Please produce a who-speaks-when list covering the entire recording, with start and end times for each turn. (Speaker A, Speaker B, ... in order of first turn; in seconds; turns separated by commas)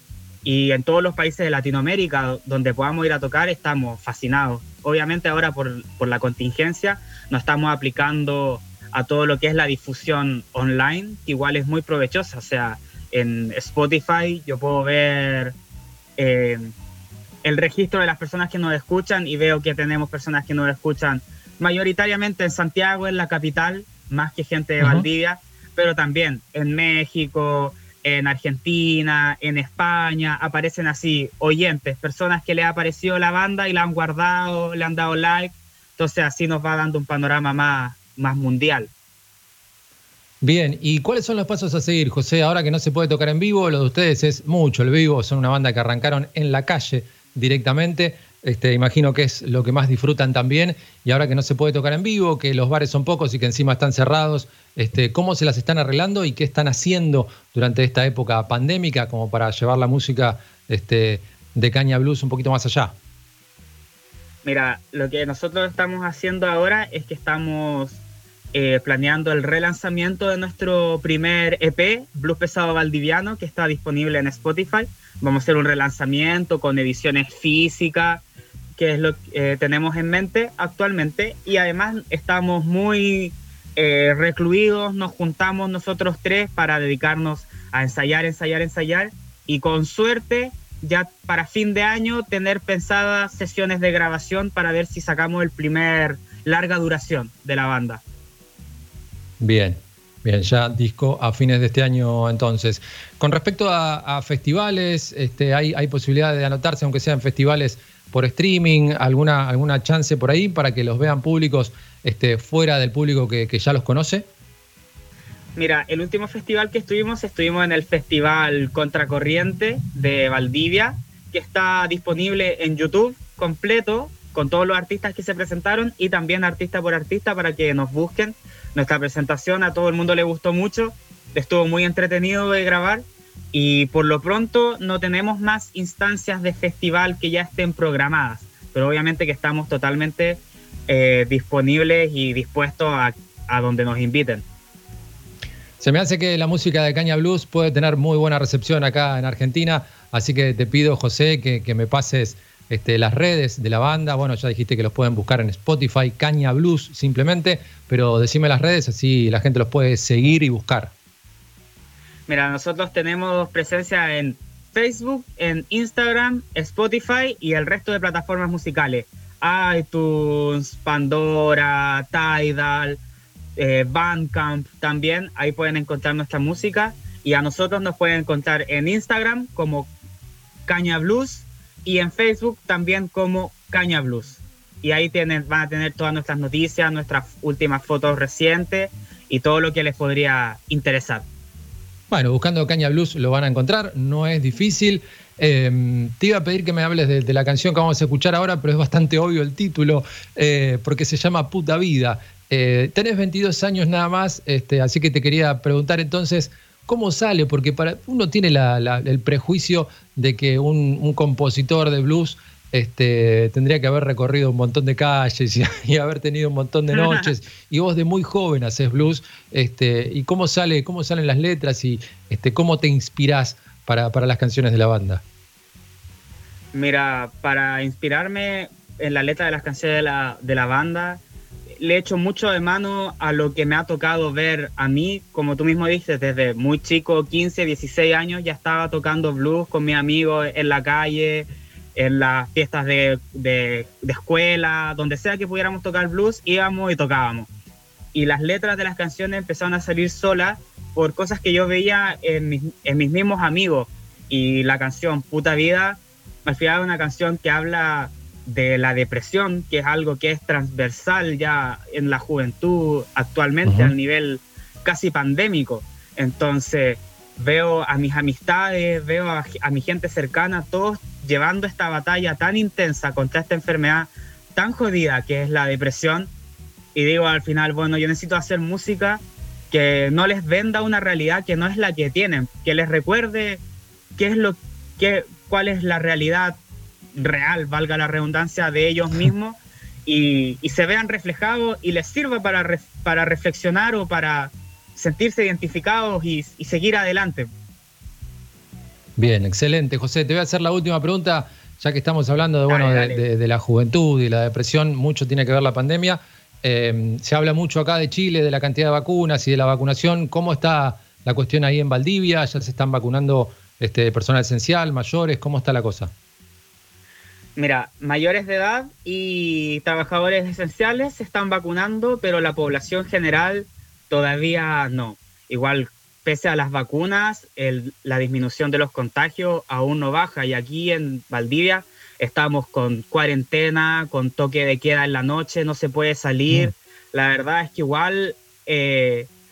Speaker A: 0.5-15.6, Speaker A: 16.2-16.7, Speaker A: 17.4-38.9, Speaker B: 24.8-25.1, Speaker B: 40.4-63.0, Speaker A: 64.5-68.0, Speaker A: 68.5-78.2, Speaker A: 78.8-98.0, Speaker B: 99.4-114.3, Speaker A: 115.6-144.4, Speaker B: 145.8-160.9, Speaker A: 162.3-173.0, Speaker A: 173.6-179.9, Speaker A: 180.7-191.3, Speaker B: 192.1-225.2, Speaker A: 216.9-217.3, Speaker A: 226.7-231.2, Speaker A: 231.8-247.5, Speaker A: 248.1-276.3, Speaker B: 263.6-263.9, Speaker A: 276.9-283.6, Speaker A: 284.2-286.6, Speaker A: 287.1-297.5, Speaker B: 299.2-316.1, Speaker A: 302.7-303.2, Speaker A: 317.6-339.3